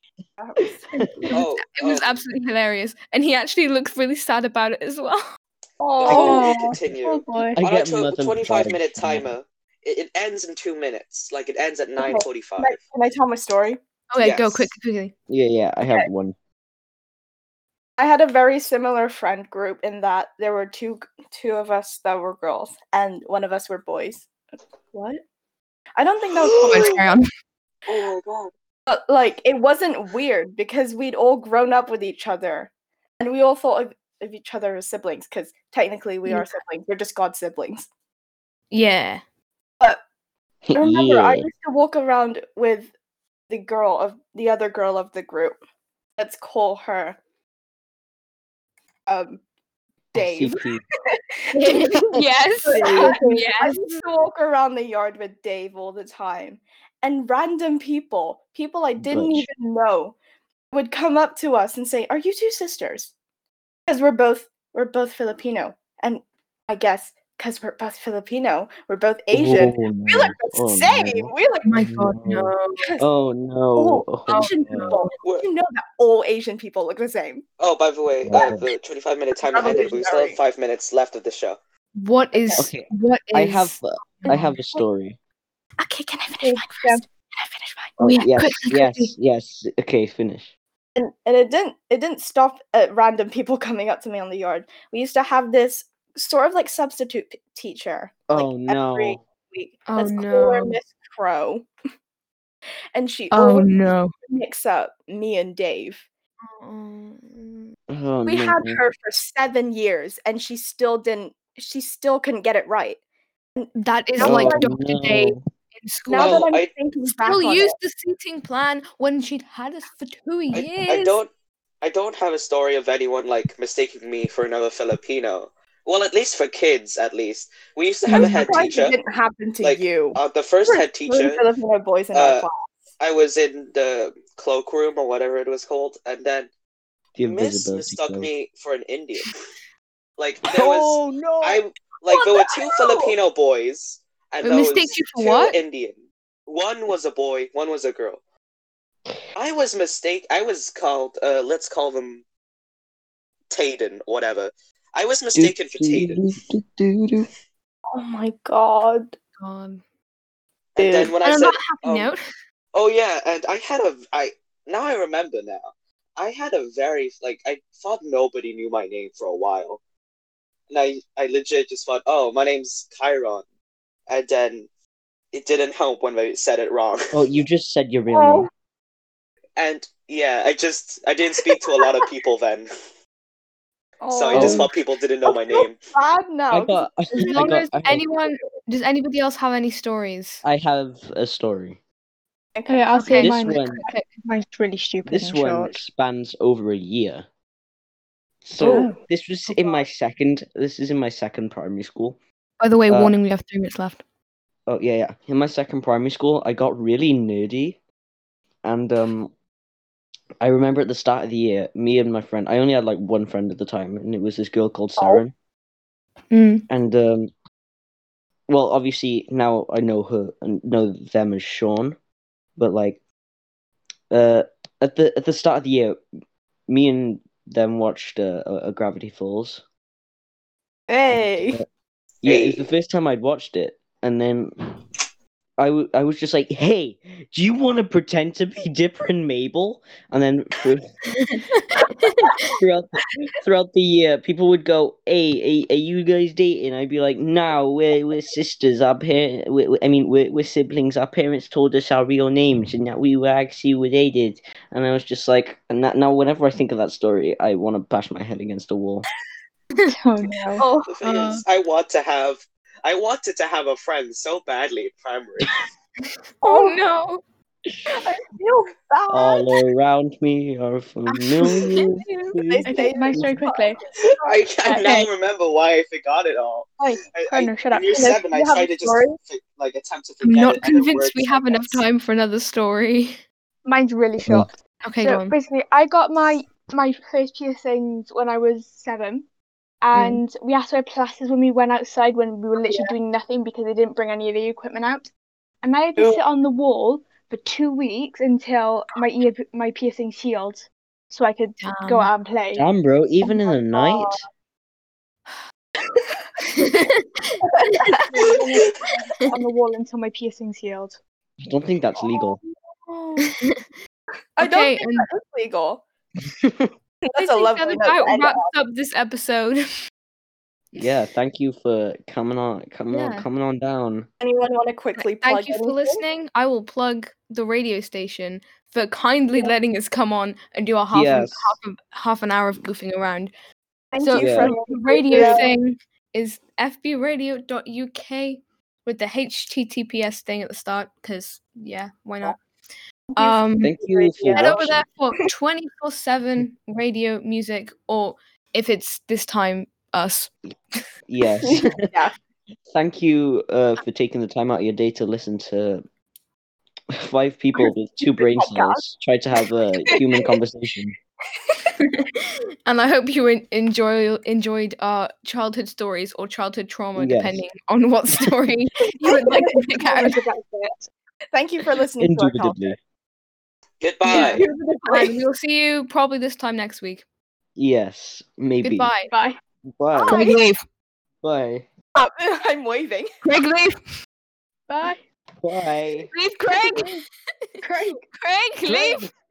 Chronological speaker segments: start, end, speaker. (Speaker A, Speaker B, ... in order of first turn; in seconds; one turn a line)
Speaker A: 0.4-1.3
Speaker B: 0.9-1.3
Speaker C: 1.3-5.2
Speaker D: 1.3-2.2
Speaker A: 5.8-6.7
Speaker D: 6.0-12.8
Speaker E: 6.1-7.6
Speaker B: 6.1-6.4
Speaker B: 7.5-9.3
Speaker A: 12.0-13.8
Speaker C: 14.1-15.1
Speaker D: 14.2-14.7
Speaker B: 15.3-16.3
Speaker A: 18.0-24.3
Speaker A: 24.9-25.2
Speaker A: 26.0-27.0
Speaker D: 26.4-26.9
Speaker C: 26.6-27.2
Speaker D: 27.9-28.5
Speaker A: 28.9-37.9
Speaker C: 36.2-36.5
Speaker C: 38.7-39.2
Speaker B: 40.6-41.5
Speaker A: 40.7-42.9
Speaker A: 43.5-45.6
Speaker A: 46.2-47.2
Speaker A: 49.1-49.4
Speaker B: 50.1-50.8
Speaker A: 50.1-50.6
Speaker A: 51.5-60.1
Speaker C: 51.5-54.0
Speaker E: 52.9-53.2
Speaker B: 59.0-59.5
Speaker A: 60.7-63.1
Speaker A: 63.9-71.7
Speaker B: 69.3-75.0
Speaker C: 71.6-72.8
Speaker A: 72.8-73.1
Speaker A: 73.7-77.4
Speaker C: 74.3-75.0
Speaker D: 75.2-75.5
Speaker D: 77.6-81.6
Speaker B: 78.2-78.7
Speaker A: 79.4-80.4
Speaker C: 82.0-84.6
Speaker A: 82.3-82.6
Speaker B: 82.5-85.2
Speaker A: 85.8-88.0
Speaker E: 86.5-87.0
Speaker C: 88.0-89.1
Speaker B: 88.0-90.5
Speaker A: 91.0-101.7
Speaker B: 98.3-99.2
Speaker C: 99.9-100.8
Speaker A: 102.9-103.7
Speaker C: 103.3-104.1
Speaker A: 104.3-106.0
Speaker C: 106.5-107.7
Speaker B: 107.9-108.8
Speaker A: 108.2-113.0
Speaker A: 113.6-114.7
Speaker C: 113.8-116.5
Speaker B: 114.2-115.4
Speaker A: 116.1-117.8
Speaker D: 116.2-116.7
Speaker C: 117.1-121.2
Speaker D: 120.5-121.3
Speaker D: 121.8-129.0
Speaker C: 128.1-128.5
Speaker A: 128.1-132.7
Speaker D: 129.6-131.4
Speaker D: 132.1-132.4
Speaker D: 133.0-136.5
Speaker B: 137.2-138.3
Speaker D: 137.2-139.3
Speaker D: 140.2-148.2
Speaker B: 140.5-141.6
Speaker A: 142.1-143.1
Speaker C: 144.4-145.6
Speaker D: 149.3-152.2
Speaker D: 153.5-156.2
Speaker B: 155.3-157.3
Speaker A: 157.9-159.1
Speaker C: 159.4-159.8
Speaker D: 160.7-162.1
Speaker A: 160.8-161.1
Speaker C: 161.2-162.2
Speaker D: 162.7-169.8
Speaker D: 170.7-173.4
Speaker D: 174.1-174.7
Speaker D: 175.3-177.1
Speaker B: 177.1-178.5
Speaker A: 178.1-178.5
Speaker D: 179.6-182.7
Speaker A: 181.4-181.9
Speaker A: 184.0-187.6
Speaker D: 184.1-185.8
Speaker B: 184.3-184.7
Speaker B: 186.5-188.1
Speaker C: 187.2-190.4
Speaker B: 190.4-191.8
Speaker A: 192.6-192.8
Speaker E: 192.7-195.8
Speaker C: 192.9-194.1
Speaker B: 193.2-193.8
Speaker B: 195.0-197.2
Speaker B: 198.4-202.2
Speaker E: 198.6-199.0
Speaker C: 202.6-204.0
Speaker B: 202.9-203.1
Speaker B: 204.7-207.8
Speaker B: 208.6-209.3
Speaker B: 210.4-215.3
Speaker A: 215.0-215.2
Speaker C: 216.3-216.6
Speaker B: 216.7-217.3
Speaker B: 218.5-221.9
Speaker B: 222.6-223.0
Speaker B: 224.1-226.0
Speaker B: 226.7-229.6
Speaker A: 230.9-231.6
Speaker B: 231.1-231.7
Speaker B: 232.2-234.5
Speaker D: 232.2-232.7
Speaker B: 235.6-240.9
Speaker C: 241.1-242.3
Speaker B: 242.6-259.1
Speaker E: 259.9-260.7
Speaker A: 260.6-260.9
Speaker D: 260.9-265.6
Speaker C: 261.0-261.4
Speaker C: 266.4-267.2
Speaker A: 266.4-266.8
Speaker A: 267.9-269.6
Speaker B: 269.1-273.4
Speaker C: 271.3-271.7
Speaker A: 272.0-274.4
Speaker E: 272.6-273.8
Speaker D: 274.2-281.8
Speaker E: 274.6-275.1
Speaker E: 276.8-277.9
Speaker A: 277.9-279.2
Speaker C: 280.2-283.2
Speaker E: 283.6-289.2
Speaker B: 284.2-284.5
Speaker C: 284.8-285.3
Speaker E: 289.8-295.1
Speaker C: 289.9-290.2
Speaker A: 292.6-292.9
Speaker E: 295.6-302.6
Speaker C: 301.6-302.1
Speaker B: 302.5-304.2
Speaker A: 303.7-304.2
Speaker C: 306.4-308.0
Speaker A: 307.6-308.3
Speaker E: 308.1-311.0
Speaker B: 311.4-312.4
Speaker A: 312.0-313.3
Speaker C: 314.4-315.1
Speaker A: 314.4-315.8
Speaker B: 316.4-316.7
Speaker A: 317.0-318.5
Speaker C: 317.1-319.6
Speaker B: 320.8-324.1
Speaker C: 322.9-323.3
Speaker A: 324.2-326.0
Speaker C: 325.0-333.3
Speaker B: 330.9-331.6
Speaker A: 333.9-335.5
Speaker C: 334.0-342.4
Speaker B: 334.1-334.5
Speaker A: 343.1-344.6
Speaker C: 343.2-343.7
Speaker B: 343.6-344.8
Speaker C: 344.4-350.8
Speaker B: 351.1-351.9
Speaker A: 351.4-352.1
Speaker B: 352.7-355.8
Speaker B: 356.9-360.9
Speaker A: 358.0-358.8
Speaker A: 359.9-360.3
Speaker C: 361.8-370.2
Speaker B: 366.9-367.4
Speaker E: 369.8-370.9
Speaker A: 371.3-372.8
Speaker B: 372.0-372.8
Speaker D: 373.8-374.4
Speaker A: 374.1-375.2
Speaker C: 374.1-377.0
Speaker B: 377.6-378.9
Speaker C: 378.6-379.1
Speaker E: 379.1-379.4
Speaker B: 379.8-380.3
Speaker A: 380.1-380.3
Speaker C: 380.1-380.6
Speaker B: 381.2-381.6
Speaker A: 381.9-383.1
Speaker C: 383.2-383.8
Speaker E: 384.7-385.0
Speaker B: 385.4-386.1
Speaker C: 386.1-386.9
Speaker A: 387.6-388.0
Speaker C: 388.1-389.0
Speaker B: 388.6-389.1